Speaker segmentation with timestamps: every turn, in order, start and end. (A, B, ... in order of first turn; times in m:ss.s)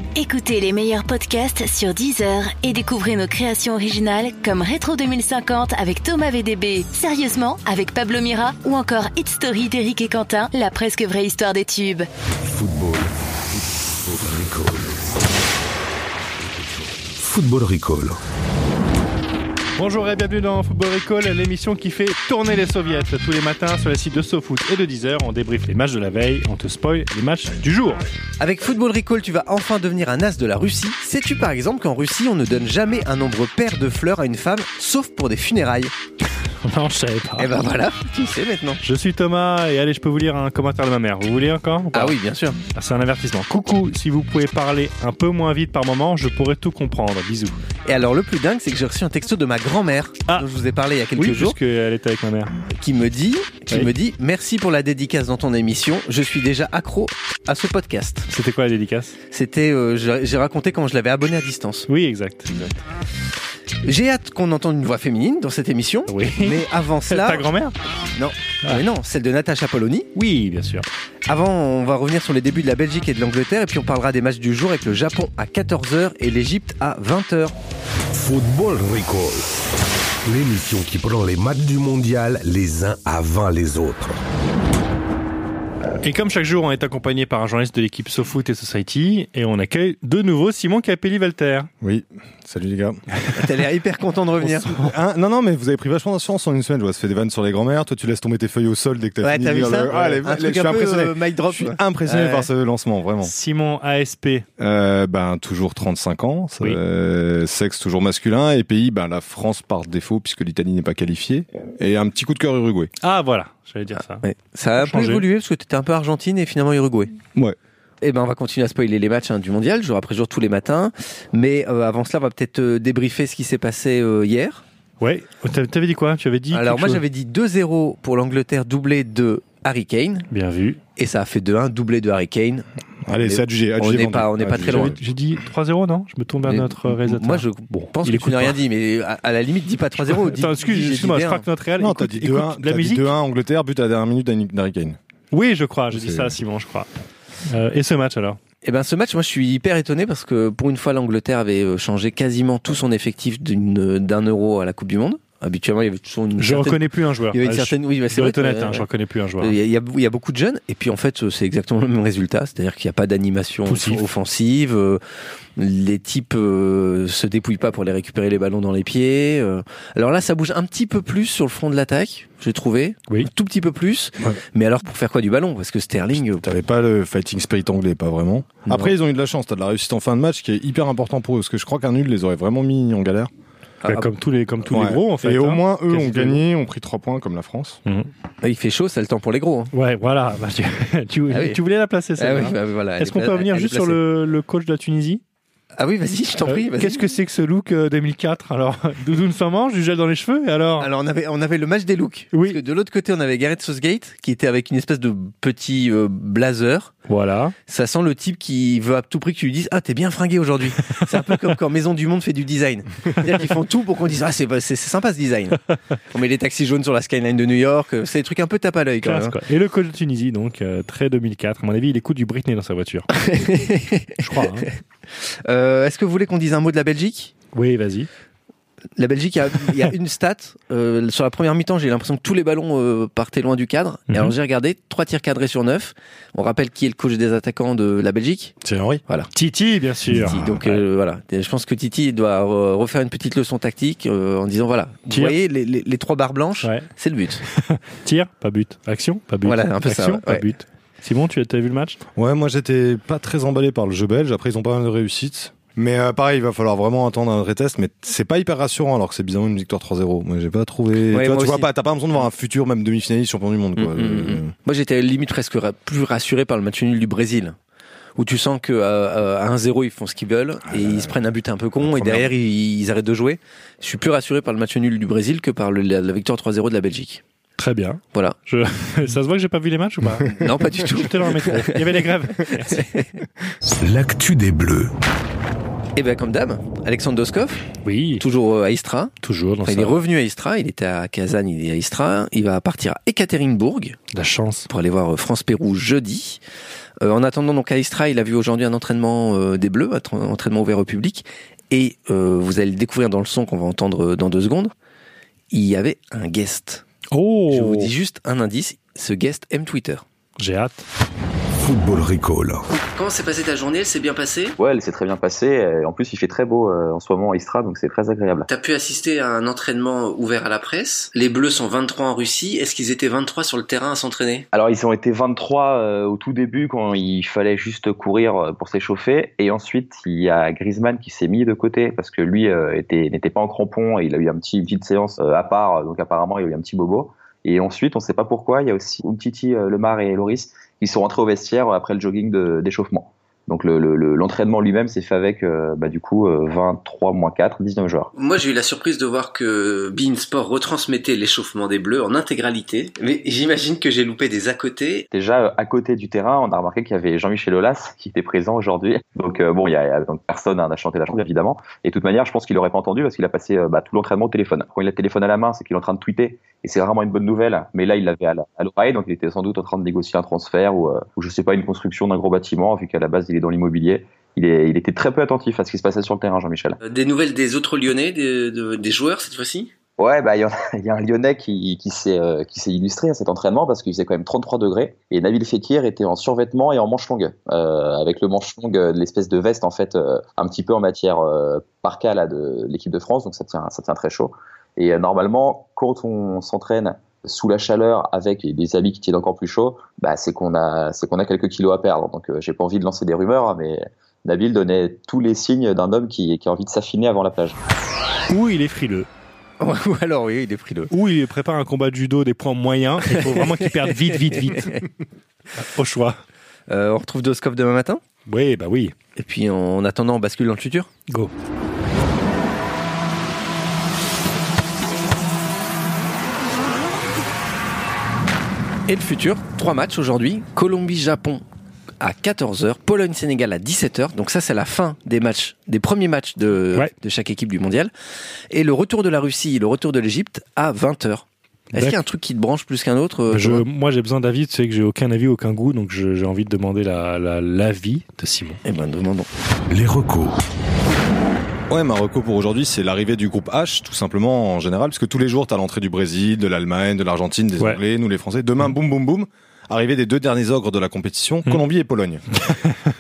0:00.2-0:12.1 A
0:12.5-0:15.0 B
0:16.6-0:18.2 B
0:19.8-0:28.0 C
0:28.4-0:35.9 D
0:36.6-0:37.5 C
0:37.4-0:38.8 D
0:38.8-0:42.2 C
0:41.9-0:42.6 D
0:42.8-0:47.6 C
0:47.8-0:51.6 D
0:51.2-0:52.6 C
0:52.7-0:58.3 D
0:58.3-0:59.2 C
0:59.3-1:01.9 D
1:01.9-1:02.7 C
1:03.8-1:07.4 D
1:06.1-1:07.8 C
1:08.1-1:10.1 D
1:10.2-1:10.9 C
1:11.3-1:17.6 D
1:18.1-1:19.5 B
1:20.2-1:24.2 B
1:26.0-1:31.7 C
1:31.8-1:33.0 E
1:33.4-1:34.7 D
1:34.4-1:43.3 E
1:39.2-1:42.5 D
1:43.2-1:44.5 C
1:44.6-1:52.9 E
1:53.0-1:55.2 C
1:54.2-1:57.1 D
1:58.0-2:04.6 D
2:05.0-2:07.0 C
2:06.5-2:10.3 D
2:10.3-2:10.8 C
2:11.0-2:12.7 D
2:13.0-2:15.0 E
2:13.2-2:15.0 D
2:14.6-2:18.6 C
2:16.5-2:21.4 D
2:20.1-2:23.1 C
2:21.8-2:25.0 E
2:25.3-2:26.9 C
2:25.9-2:26.3 E
2:27.5-2:28.4 C
2:28.6-2:38.9 D
2:36.4-2:39.6 C
2:39.4-2:45.0 D
2:43.7-2:44.0 C
2:45.6-2:56.5 D
2:56.3-3:03.3 E
3:03.8-3:04.1 D
3:03.9-3:06.4 C
3:04.7-3:07.8 E
3:08.4-3:09.7 D
3:09.7-3:15.2 C
3:11.3-3:11.6 D
3:12.2-3:14.0 D
3:15.8-3:17.0 D
3:16.5-3:20.9 C
3:20.8-3:26.9 D
3:22.3-3:22.6 C
3:27.1-3:27.6 C
3:27.7-3:39.4 D
3:30.8-3:31.5 C
3:39.0-3:43.1 C
3:43.1-3:44.2 D
3:44.2-3:44.7 C
3:45.4-3:47.3 D
3:47.5-3:48.1 C
3:49.0-3:58.6 D
3:54.1-3:54.3 C
3:58.6-3:59.0 E
3:59.3-4:00.8 C
4:00.2-4:07.4 D
4:05.1-4:05.4 C
4:07.5-4:12.0 C
4:09.4-4:10.4 D
4:12.2-4:24.5 E
4:21.1-4:21.7 D
4:23.8-4:27.6 D
4:28.2-4:37.2 D
4:30.7-4:31.2 E
4:31.8-4:32.3 E
4:37.6-4:42.9 C
4:40.4-4:42.0 D
4:42.7-4:43.0 D
4:43.8-4:44.9 B
4:46.0-4:47.7 D
4:47.8-4:48.2 C
4:48.2-4:49.1 D
4:49.2-4:50.0 C
4:49.6-4:54.0 D
4:54.1-4:54.7 C
4:54.7-4:56.4 D
4:57.0-5:04.7 D
5:05.5-5:06.8 D
5:07.1-5:07.9 C
5:07.5-5:10.0 D
5:10.4-5:10.8 C
5:11.6-5:12.6 B
5:12.8-5:14.6 D
5:14.6-5:18.5 F
5:18.5-5:24.5 D
5:24.5-5:48.1 F
5:48.2-5:55.1 D
5:55.1-6:16.8 F
6:16.8-6:19.7 D
6:20.0-6:47.6 F
6:48.3-6:49.1 C
6:49.6-6:50.9 D
6:50.9-6:54.8 C
6:54.6-6:54.8 D
6:55.6-6:56.2 C
6:56.7-6:58.0 D
6:58.3-6:59.0 C
6:59.2-7:00.9 D
7:08.9-7:11.4 D
7:12.0-7:17.9 D
7:18.5-7:23.6 D
7:21.7-7:22.0 C
7:23.3-7:28.6 C
7:28.6-7:29.3 D
7:29.7-7:30.4 B
7:31.7-7:42.5 E